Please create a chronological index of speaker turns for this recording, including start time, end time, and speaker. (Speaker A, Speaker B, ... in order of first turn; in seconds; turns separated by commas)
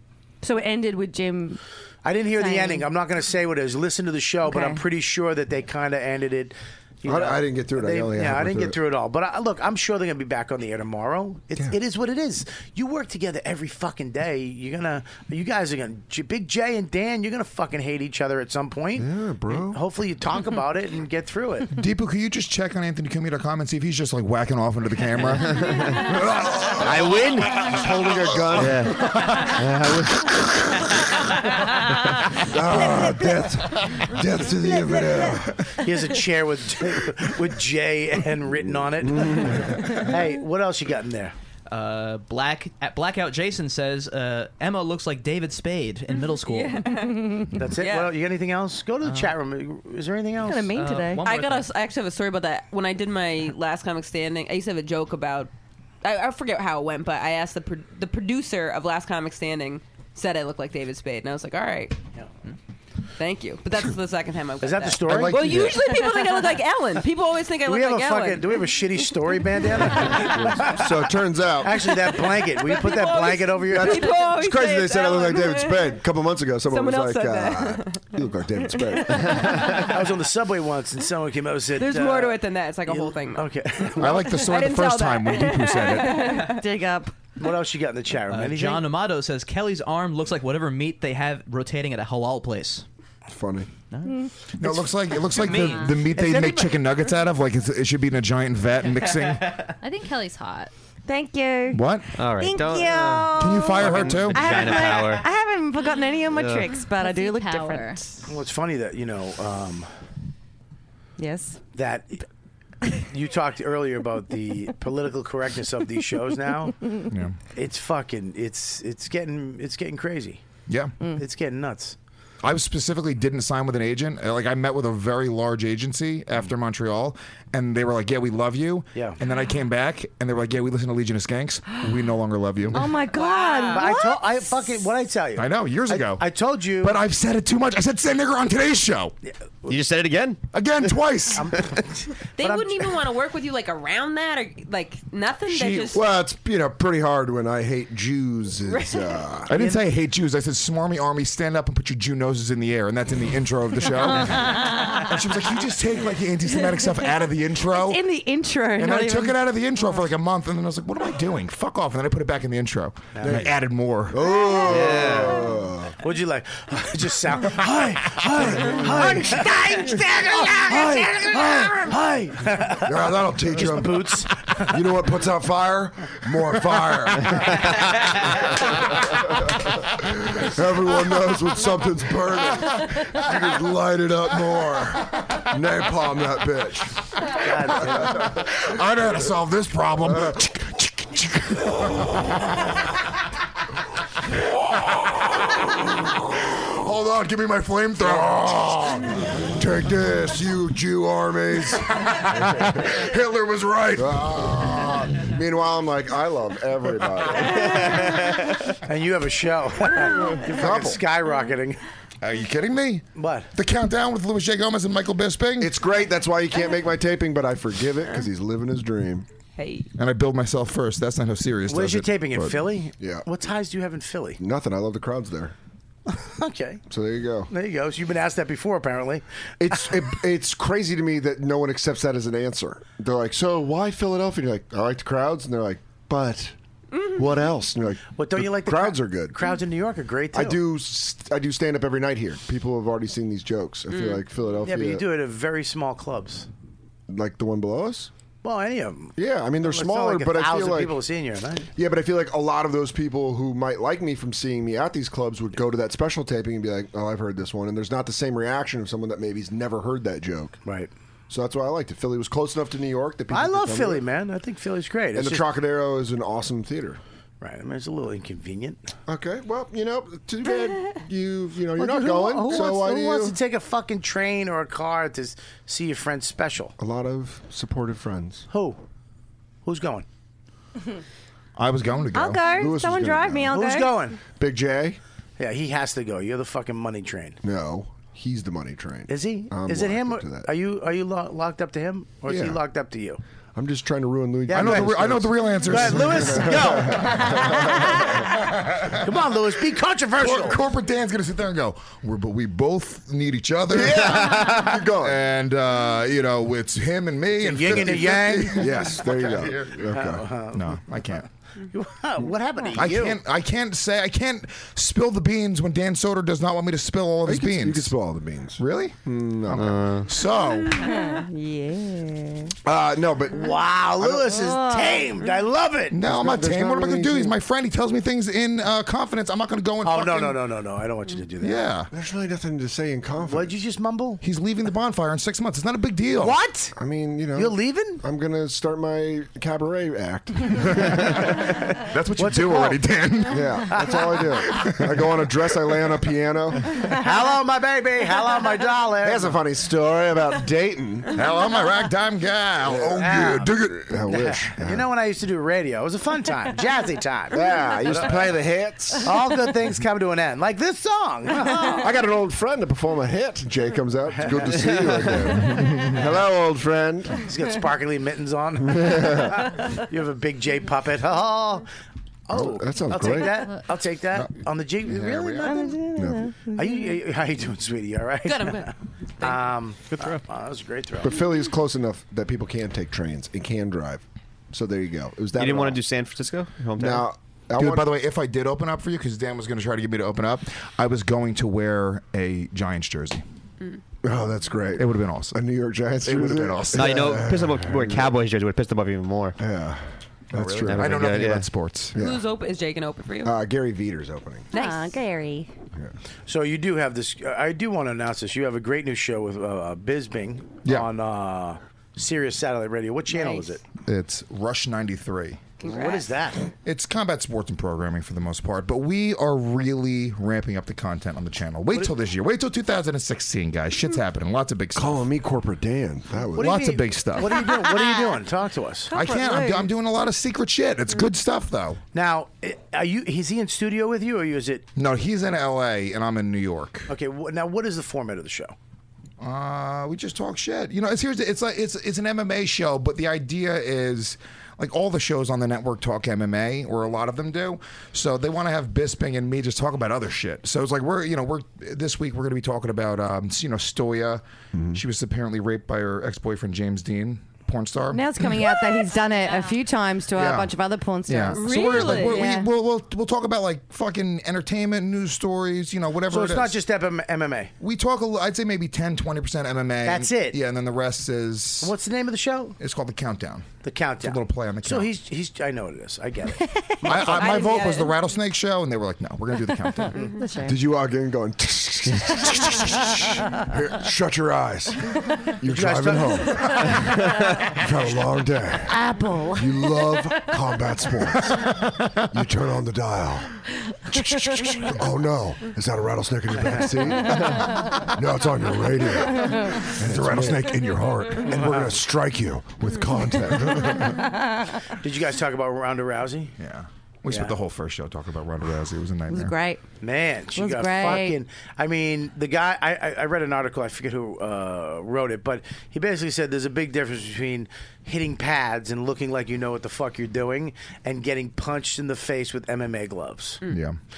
Speaker A: 0.4-1.6, Speaker B: 2.0-21.7, Speaker A: 2.3-2.9, Speaker A: 4.5-4.8, Speaker C: 7.0-8.8, Speaker C: 19.0-19.8, Speaker D: 21.8-27.8, Speaker C: 26.1-29.1, Speaker E: 26.9-27.5, Speaker D: 28.6-29.6, Speaker E: 28.6-30.1, Speaker C: 32.4-35.7, Speaker B: 35.8-41.3, Speaker C: 39.0-39.9, Speaker F: 41.7-46.9, Speaker G: 46.1-48.1, Speaker A: 47.1-47.5, Speaker B: 47.6-50.7, Speaker F: 49.0-49.4, Speaker A: 50.4-51.2, Speaker F: 50.7-51.7, Speaker G: 51.2-55.5, Speaker G: 56.0-62.0, Speaker G: 63.2-68.7, Speaker B: 64.6-65.5, Speaker D: 65.1-65.8, Speaker B: 67.6-70.9, Speaker C: 70.6-72.0, Speaker B: 71.6-74.1, Speaker G: 72.6-76.0, Speaker C: 73.7-79.7, Speaker G: 76.7-79.8, Speaker B: 79.6-84.4, Speaker G: 81.8-83.5, Speaker D: 84.0-86.5, Speaker G: 84.1-86.6, Speaker A: 86.0-87.1, Speaker B: 87.4-88.8, Speaker F: 88.3-92.8, Speaker C: 93.3-93.7, Speaker F: 93.9-94.2, Speaker A: 94.0-94.3, Speaker D: 94.6-99.7, Speaker F: 95.5-95.8, Speaker H: 95.7-95.9, Speaker B: 96.1-96.8, Speaker H: 99.8-100.7, Speaker A: 101.1-101.8, Speaker D: 101.7-102.1, Speaker E: 102.2-105.3, Speaker A: 102.4-108.1, Speaker D: 103.3-104.7, Speaker E: 106.3-106.7, Speaker H: 107.0-108.0, Speaker B: 108.3-109.9, Speaker A: 111.2-111.6, Speaker B: 111.7-112.2, Speaker B: 112.9-116.8, Speaker D: 117.1-117.4, Speaker B: 117.5-120.4, Speaker D: 120.7-121.0, Speaker B: 121.2-122.0, Speaker D: 122.4-132.9, Speaker B: 128.9-129.2, Speaker A: 132.7-134.2, Speaker G: 133.1-133.9, Speaker B: 133.7-137.0, Speaker D: 135.4-136.2, Speaker D: 136.8-139.1, Speaker E: 139.7-140.4, Speaker D: 140.5-141.6, Speaker B: 141.3-142.9, Speaker G: 142.4-146.1, Speaker C: 145.5-149.6, Speaker G: 148.7-149.0, Speaker D: 149.5-158.0, Speaker B: 149.6-149.8, Speaker A: 157.8-159.4, Speaker D: 158.7-164.3, Speaker B: 163.1-163.4, Speaker C: 163.2-163.5, Speaker C: 164.1-165.9, Speaker E: 164.6-165.4, Speaker B: 166.0-172.9, Speaker C: 168.3-169.5, Speaker C: 172.8-187.0, Speaker B: 173.5-174.7, Speaker B: 187.4-188.2, Speaker C: 187.8-188.5, Speaker D: 188.1-192.7, Speaker C: 190.0-190.3, Speaker D: 194.7-199.3, Speaker C: 198.0-198.6, Speaker C: 199.5-202.9, Speaker D: 201.8-204.9, Speaker C: 203.9-208.5, Speaker B: 208.8-211.8, Speaker C: 210.4-211.0, Speaker D: 212.2-215.7, Speaker B: 213.1-213.5, Speaker C: 215.6-219.3, Speaker G: 219.6-219.9, Speaker D: 219.9-222.6, Speaker B: 221.7-224.4, Speaker C: 223.0-223.2, Speaker C: 224.4-225.5, Speaker B: 226.1-226.8, Speaker C: 226.9-227.5, Speaker B: 227.5-229.9, Speaker C: 229.6-239.5, Speaker G: 236.9-237.3, Speaker B: 238.2-240.6, Speaker C: 240.3-245.0, Speaker G: 243.9-244.2, Speaker B: 244.6-246.5, Speaker C: 247.1-248.1, Speaker B: 248.4-251.7, Speaker C: 249.2-251.0, Speaker C: 251.7-260.6, Speaker B: 260.6-260.9, Speaker C: 261.3-264.0, Speaker B: 263.3-265.4, Speaker C: 265.1-267.0, Speaker B: 267.4-268.9, Speaker C: 269.1-273.4, Speaker B: 271.8-276.7, Speaker C: 276.8-278.4, Speaker B: 278.5-278.8, Speaker B: 279.6-280.1, Speaker D: 281.6-282.5, Speaker A: 282.1-283.9, Speaker C: 282.5-283.5, Speaker B: 283.5-284.2, Speaker C: 284.3-285.0, Speaker B: 285.4-287.4, Speaker C: 287.4-290.5, Speaker B: 289.1-293.2, Speaker C: 292.3-292.6, Speaker C: 293.5-298.2, Speaker B: 294.5-295.0, Speaker D: 294.5-299.1, Speaker B: 295.7-297.7, Speaker B: 299.0-300.6, Speaker D: 300.2-309.8, Speaker C: 303.7-305.2, Speaker B: 307.4-308.8, Speaker C: 307.7-310.2, Speaker B: 309.9-310.8, Speaker D: 310.5-311.3, Speaker B: 311.6-313.2, Speaker D: 312.7-317.9, Speaker C: 317.2-320.0, Speaker D: 318.6-319.0, Speaker D: 319.5-320.9, Speaker E: 319.6-320.1, Speaker A: 320.7-322.5, Speaker C: 322.6-324.2, Speaker B: 323.3-325.9, Speaker A: 324.3-325.1, Speaker D: 325.9-330.4, Speaker C: 326.0-327.4, Speaker B: 329.8-331.6, Speaker D: 331.4-331.9, Speaker C: 331.9-333.5, Speaker B: 333.2-334.2, Speaker D: 334.2-336.4, Speaker B: 336.2-336.8, Speaker C: 336.8-341.4, Speaker B: 337.3-338.0, Speaker D: 340.6-343.9, Speaker B: 342.2-342.8, Speaker C: 343.3-346.7, Speaker B: 343.6-344.1, Speaker D: 344.6-345.1, Speaker B: 346.9-349.4, Speaker C: 349.0-351.1, Speaker D: 351.1-354.0, Speaker C: 352.6-354.9, Speaker B: 352.9-353.5, Speaker B: 354.1-358.3, Speaker C: 357.3-359.1, Speaker B: 359.0-361.9, Speaker C: 361.8-367.1, Speaker B: 364.1-364.9, Speaker D: 365.5-365.8, Speaker B: 367.2-371.6, Speaker C: 368.6-369.4, Speaker B: 372.3-375.8, Speaker C: 372.3-373.6, Speaker H: 373.1-373.6, Speaker D: 374.8-375.6, Speaker A: 375.4-376.8, Speaker C: 375.9-376.3, Speaker B: 376.5-381.1, Speaker G: 378.2-379.4, Speaker C: 381.0-385.8, Speaker E: 385.4-387.1, Speaker C: 386.8-387.9, Speaker D: 387.6-393.2, Speaker C: 394.0-398.1, Speaker D: 394.8-395.4, Speaker D: 396.0-397.0, Speaker E: 396.7-399.4, Speaker C: 399.4-401.3, Speaker D: 400.3-401.9, Speaker E: 400.6-401.5, Speaker C: 401.9-402.2, Speaker G: 401.9-403.4, Speaker C: 403.2-404.5, Speaker G: 404.5-405.0, Speaker A: 404.5-405.5, Speaker B: 406.3-413.6, Speaker G: 413.1-413.5, Speaker D: 413.9-415.4, Speaker B: 415.6-416.5, Speaker G: 415.6-416.0, Speaker D: 416.6-425.0, Speaker C: 424.7-426.5, Speaker B: 426.3-428.9, Speaker D: 426.4-427.3, Speaker D: 428.9-431.8, Speaker A: 428.9-429.7, Speaker B: 431.9-434.6, Speaker D: 434.8-436.9, Speaker B: 436.9-438.5, Speaker D: 439.2-454.2, Speaker C: 454.5-454.8, Speaker D: 454.7-458.2, Speaker A: 457.9-462.5, Speaker H: 459.2-459.5, Speaker D: 460.1-460.5, Speaker D: 461.1-466.6, Speaker G: 461.3-462.3, Speaker B: 466.1-467.5, Speaker D: 467.6-471.7, Speaker B: 469.8-470.4, Speaker B: 471.6-472.6, Speaker D: 472.6-473.5, Speaker B: 473.6-476.5, Speaker D: 474.0-474.9, Speaker A: 476.5-476.8, Speaker D: 476.8-480.1, Speaker G: 477.0-477.9, Speaker A: 479.9-480.6, Speaker C: 480.5-488.8, Speaker A: 483.0-483.4, Speaker B: 485.4-486.4, Speaker A: 488.7-489.5, Speaker C: 489.4-491.6, Speaker D: 491.3-492.0, Speaker C: 492.1-493.4, Speaker C: 493.9-504.0, Speaker B: 496.4-496.7, Speaker A: 499.2-499.6, Speaker D: 499.8-501.6, Speaker B: 501.2-501.7, Speaker A: 503.9-504.6, Speaker B: 504.7-506.3, Speaker D: 506.4-509.3, Speaker B: 507.1-507.4, Speaker A: 509.1-509.6, Speaker B: 509.8-523.4, Speaker A: 510.3-511.2, Speaker D: 523.5-523.8